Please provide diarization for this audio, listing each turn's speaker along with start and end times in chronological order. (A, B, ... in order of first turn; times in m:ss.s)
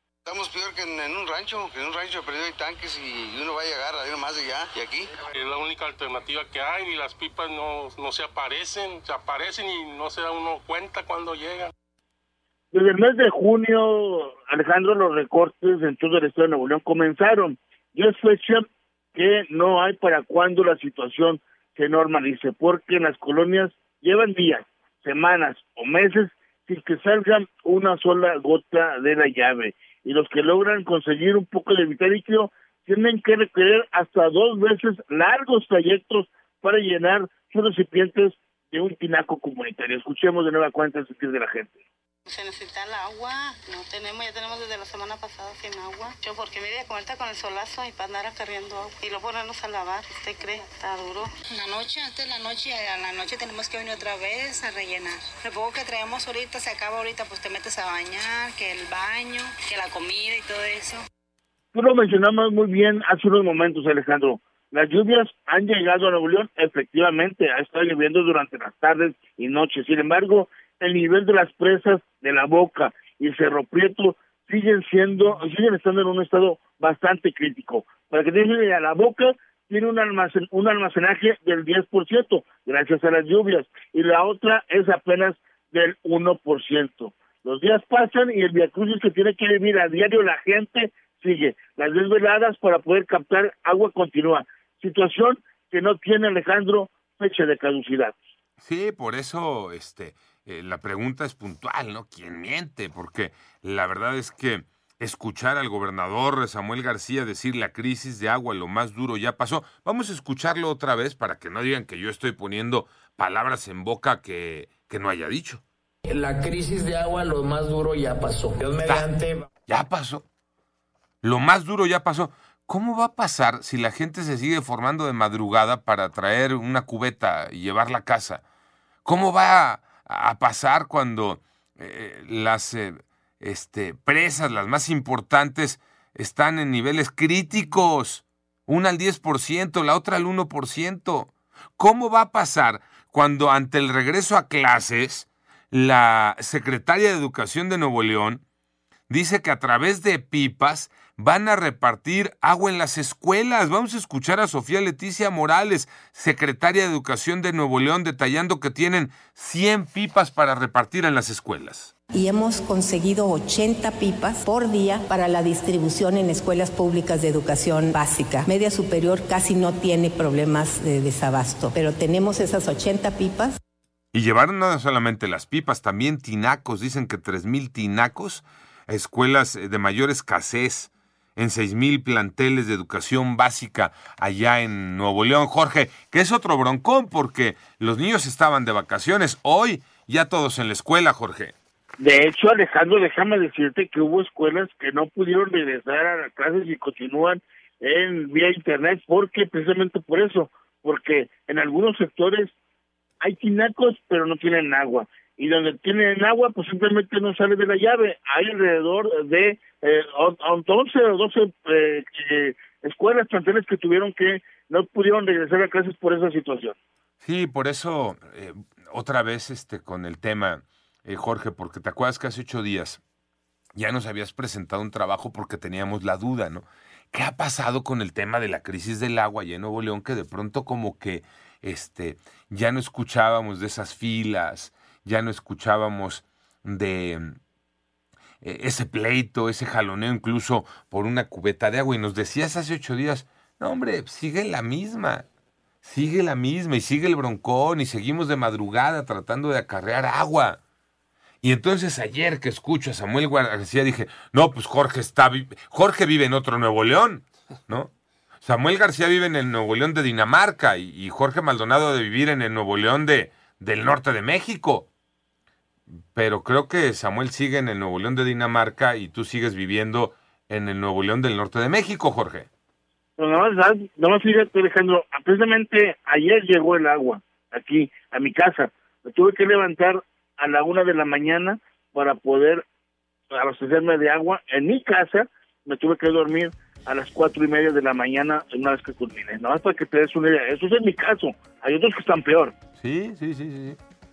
0:00.2-0:05.1 A
0:05.3-0:11.7 B
0:12.7-0:18.6 C
0:19.1-0:41.7 C
0:42.3-0:50.8 D
0:51.5-1:01.0 E
1:01.7-1:38.1 C
1:38.6-1:55.6 F
1:56.1-1:59.4 G
1:59.7-2:00.2 F
2:01.2-2:08.4 F
2:09.0-2:28.4 F
2:29.1-2:41.9 F
2:42.1-2:53.6 H
2:54.1-3:11.5 F
3:12.0-3:22.5 C
3:23.2-3:36.7 C
3:37.2-3:43.0 F
3:43.7-3:57.4 F
3:58.4-4:05.2 F
4:05.8-4:10.6 F
4:11.4-4:17.9 F
4:18.4-4:24.9 F
4:26.1-4:32.5 F
4:33.2-4:42.6 C
4:43.3-4:52.5 C
4:52.8-4:53.8 F